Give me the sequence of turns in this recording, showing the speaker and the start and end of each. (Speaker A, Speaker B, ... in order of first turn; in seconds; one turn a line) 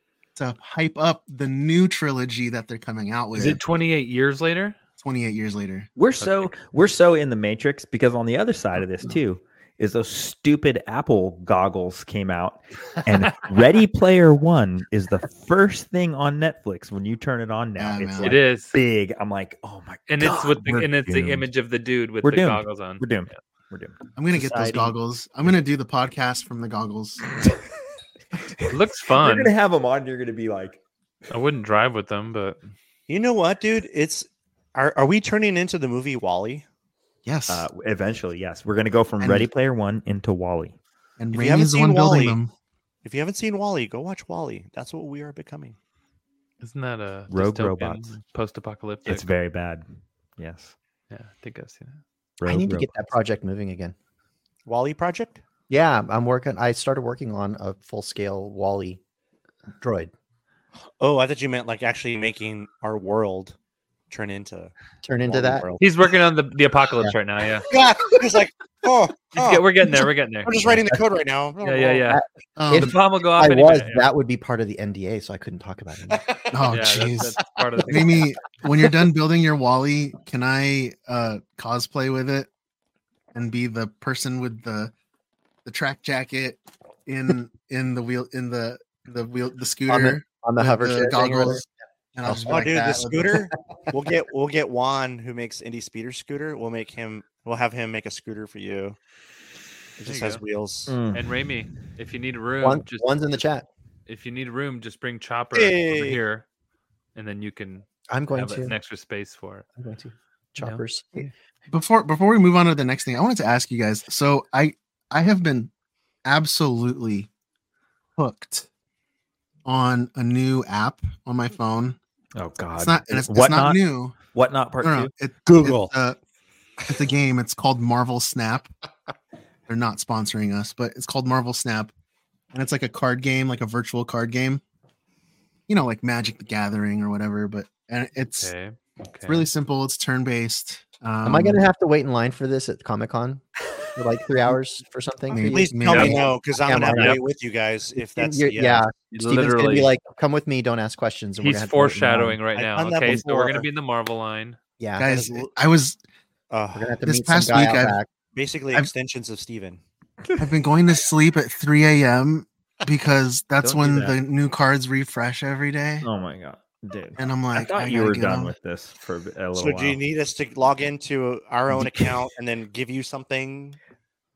Speaker A: 0.4-3.6
Speaker B: 3.4-4.8
Speaker A: 5.0-5.9
Speaker C: 6.0-21.5
Speaker A: 17.8-18.4
Speaker B: 18.2-18.7
Speaker B: 20.1-23.4
Speaker C: 22.2-24.9
Speaker A: 24.2-27.2
Speaker B: 28.7-29.5
Speaker C: 29.1-30.8
Speaker B: 31.3-32.6
Speaker D: 33.1-36.6
Speaker A: 37.2-37.7
Speaker C: 37.5-40.8
Speaker A: 39.2-39.5
Speaker A: 41.2-42.5
Speaker D: 41.3-42.4
Speaker D: 43.0-45.8
Speaker B: 46.6-49.3
Speaker C: 47.3-48.1
Speaker C: 49.0-50.8
Speaker B: 51.1-52.0
Speaker C: 52.4-53.0
Speaker E: 52.4-54.0
Speaker D: 54.7-55.4
Speaker E: 55.7-59.0
Speaker E: 59.8-60.1
Speaker D: 61.0-63.6
Speaker D: 64.1-64.7
Speaker E: 65.0-65.7
Speaker D: 65.2-65.8
Speaker B: 65.8-67.7
Speaker D: 67.7-72.0
Speaker B: 69.3-70.5
Speaker E: 70.7-71.0
Speaker B: 71.6-74.1
Speaker E: 72.1-76.4
Speaker A: 72.6-73.0
Speaker A: 76.5-82.5
Speaker B: 76.7-78.3
Speaker A: 83.3-84.9
Speaker A: 85.7-93.4
Speaker E: 89.9-91.7
Speaker E: 92.3-93.4
Speaker D: 92.4-99.0
Speaker D: 100.0-101.0
Speaker B: 100.1-100.4
Speaker C: 100.9-101.3
Speaker B: 101.1-103.2
Speaker E: 102.6-103.7
Speaker B: 104.1-106.5
Speaker D: 105.5-106.2
Speaker B: 107.2-109.7
Speaker E: 108.1-108.7
Speaker E: 109.8-111.2
Speaker B: 110.6-111.3
Speaker A: 111.7-115.7
Speaker A: 116.2-117.3
Speaker A: 118.2-118.7
Speaker A: 119.7-122.0
Speaker C: 122.3-125.1
Speaker A: 122.8-124.2
Speaker A: 124.8-126.2
Speaker D: 125.5-126.0
Speaker A: 126.9-128.7
Speaker A: 129.7-131.9
Speaker A: 132.5-134.6
Speaker A: 135.7-138.5
Speaker B: 138.4-139.5
Speaker A: 139.3-141.6
Speaker E: 141.2-143.4
Speaker E: 143.9-147.2
Speaker A: 145.3-146.3
Speaker D: 145.4-148.8
Speaker B: 145.9-146.2
Speaker B: 146.9-147.2
Speaker E: 148.2-152.4
Speaker B: 149.1-149.9
Speaker B: 151.4-154.6
Speaker D: 152.6-153.7
Speaker E: 154.8-155.2
Speaker A: 155.0-156.0
Speaker D: 155.0-155.5
Speaker D: 156.5-157.0
Speaker E: 156.7-158.1
Speaker A: 157.0-158.0
Speaker D: 158.3-159.8
Speaker A: 160.4-166.1
Speaker C: 163.6-164.2
Speaker C: 166.0-170.0
Speaker A: 167.2-168.5
Speaker D: 169.6-173.8